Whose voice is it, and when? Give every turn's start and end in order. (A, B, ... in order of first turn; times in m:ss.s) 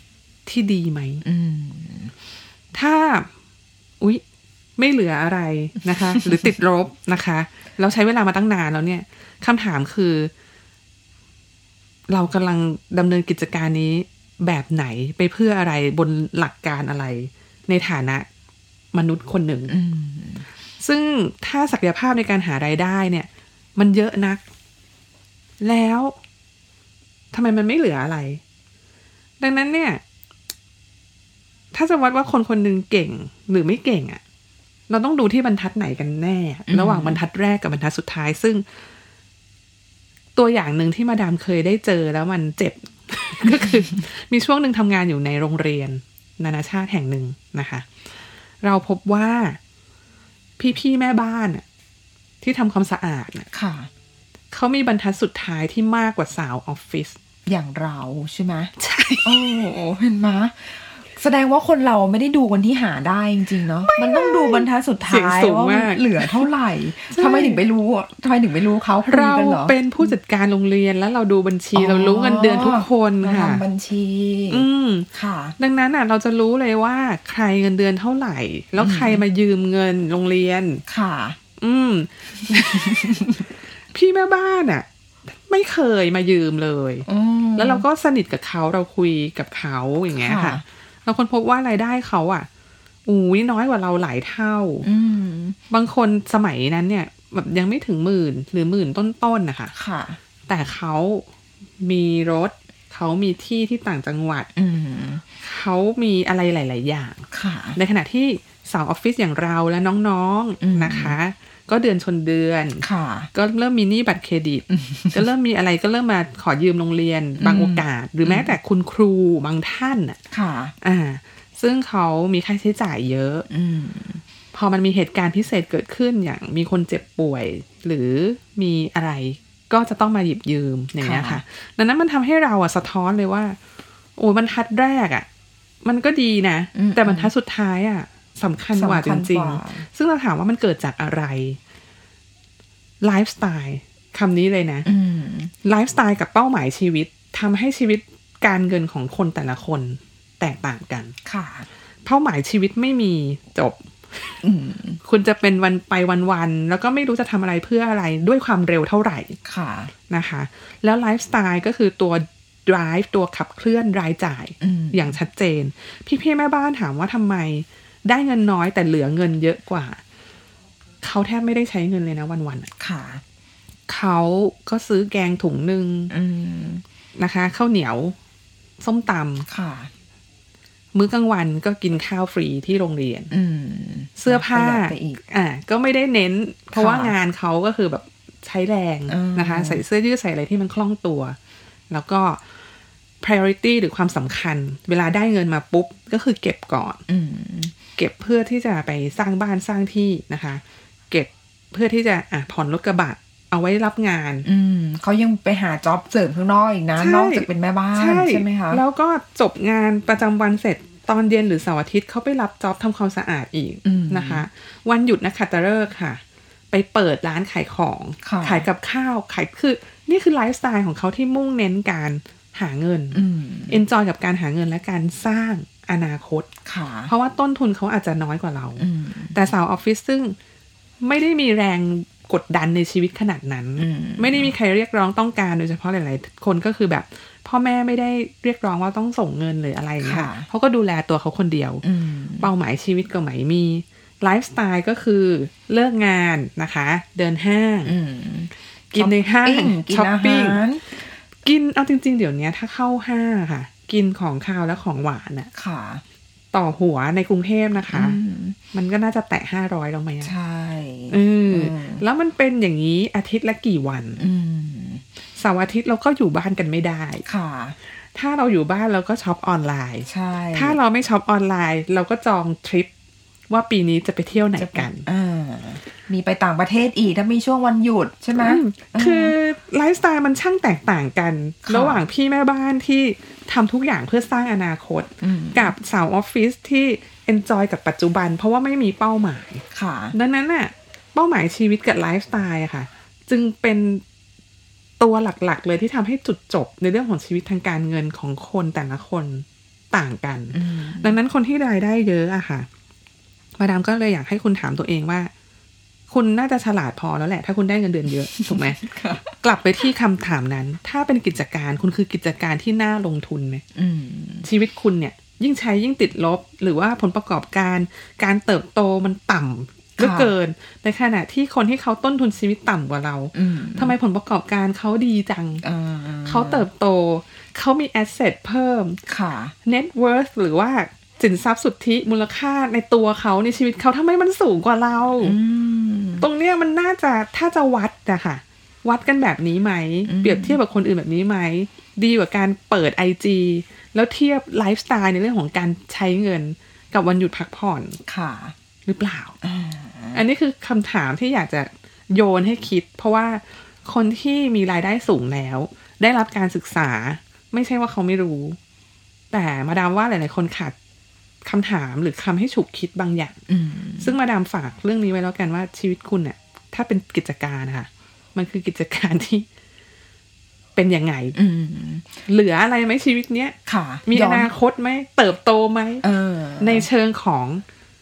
0:00.4-0:01.2 A
0:01.2-0:02.1 B
0:02.7-0:03.3 A
0:04.8-0:10.3 A
0:06.1-0:06.5 B
0:12.1-0:18.3 A
0:18.9-0:19.7 A
0:19.7-0:20.4 B
0:20.8-0:24.4 A
0:25.6-0:26.2 A
0:27.3-0:28.4 A
0:29.4-0:30.0 A
0:31.7-0:34.2 A
0:34.9-0:38.6 A
0:36.7-0:37.2 B
0:40.4-0:47.9 A
0:48.6-0:49.6 A
0:50.6-0:51.6 A
0:52.4-0:53.5 A
0:53.5-0:53.9 B
0:54.5-0:57.2 A
0:57.5-0:58.7 B
0:58.8-0:59.4 A
0:59.2-1:10.1 B
1:03.8-1:06.5 A
1:07.1-1:07.6 A
1:09.0-1:13.6 A
1:11.7-1:15.6 B
1:14.5-1:20.8 A
1:18.8-1:19.2 B
1:20.9-1:21.4 B
1:21.6-1:32.5 A
1:22.4-1:23.5 B
1:27.0-1:27.8 B
1:30.1-1:30.6 B
1:33.0-1:34.8 A
1:34.8-1:35.6 B
1:35.7-1:39.7 A
1:39.7-1:40.2 B
1:40.5-1:41.3 A
1:41.8-1:44.5 A
1:44.5-1:45.2 B
1:45.4-2:00.2 A
1:47.3-1:47.8 B
1:50.6-1:51.2 B
1:52.8-1:53.3 B
1:54.7-1:55.2 B
1:57.4-1:58.5 B
2:00.3-2:00.7 B
2:00.8-2:03.4 A
2:03.5-2:04.2 B
2:04.5-2:13.6 A
2:11.0-2:11.4 B
2:14.2-2:15.3 A
2:15.8-2:21.6 A
2:16.7-2:17.3 B
2:18.7-2:19.8 B
2:23.0-2:24.9 A
2:24.8-2:25.5 B
2:25.6-2:31.1 A
2:31.2-2:31.7 B
2:32.0-2:34.4 A
2:34.4-2:35.0 B
2:35.0-2:39.4 A
2:39.4-2:39.9 B
2:40.1-2:50.0 A
2:44.6-2:45.2 B
2:51.0-2:52.7 A
2:52.8-2:53.2 B
2:53.9-2:56.1 A
2:56.1-2:56.8 B
2:57.2-2:58.2 A
2:58.8-2:59.4 A
2:59.5-2:59.9 B
3:00.9-3:03.3 A
3:03.3-3:05.2 B
3:04.2-3:11.4 A
3:06.7-3:07.1 B
3:09.1-3:09.8 B
3:11.9-3:12.4 A
3:13.2-3:17.0 A
3:17.1-3:17.7 B
3:18.0-3:24.4 A
3:24.4-3:28.8 B
3:27.0-3:46.5 A
3:33.8-3:34.4 B
3:38.2-3:38.7 B
3:43.1-3:43.8 B
3:46.6-3:47.1 B
3:47.1-3:50.4 A
3:48.8-3:49.3 B
3:51.0-4:01.8 A
3:53.8-3:54.5 B
4:00.0-4:00.5 B
4:01.8-4:02.5 B
4:02.4-4:07.9 A
4:07.8-4:11.2 B
4:08.9-4:10.6 A
4:11.4-4:15.5 A
4:15.5-4:16.0 B
4:16.5-4:18.2 A
4:17.8-4:18.6 B
4:18.7-4:20.3 A
4:20.2-4:22.0 B
4:21.1-4:24.2 A
4:24.2-4:25.0 B
4:25.4-4:27.2 A
4:27.2-4:27.8 B
4:28.1-4:32.9 A
4:30.1-4:30.8 B
4:33.5-4:35.0 A
4:34.6-4:39.3 B
4:38.4-4:54.0 A
4:41.6-4:42.0 B
4:45.2-4:45.7 B
4:49.7-4:50.2 B
4:55.0-5:02.7 A
5:00.5-5:01.2 B
5:03.6-5:05.3 A
5:06.1-5:13.6 A
5:08.3-5:09.3 B
5:13.7-5:14.5 B
5:14.4-5:25.6 A
5:20.0-5:20.3 B
5:23.3-5:23.9 B
5:25.6-5:26.7 B
5:26.2-5:29.0 A
5:29.1-5:29.5 B
5:29.6-5:35.4 A
5:35.2-5:36.2 B
5:36.2-5:48.0 A
5:40.0-5:40.6 B
5:48.1-5:48.5 B
5:48.8-5:49.4 A
5:49.4-5:50.2 B
5:50.1-5:58.6 A
5:59.3-6:00.7 A
6:01.4-6:03.4 A
6:03.5-6:04.2 B
6:04.0-6:09.5 A
6:10.7-6:11.4 A
6:11.3-6:12.2 B
6:12.3-6:13.6 A
6:13.6-6:14.5 B
6:14.1-6:16.0 A
6:16.0-6:16.9 B
6:16.6-6:17.6 A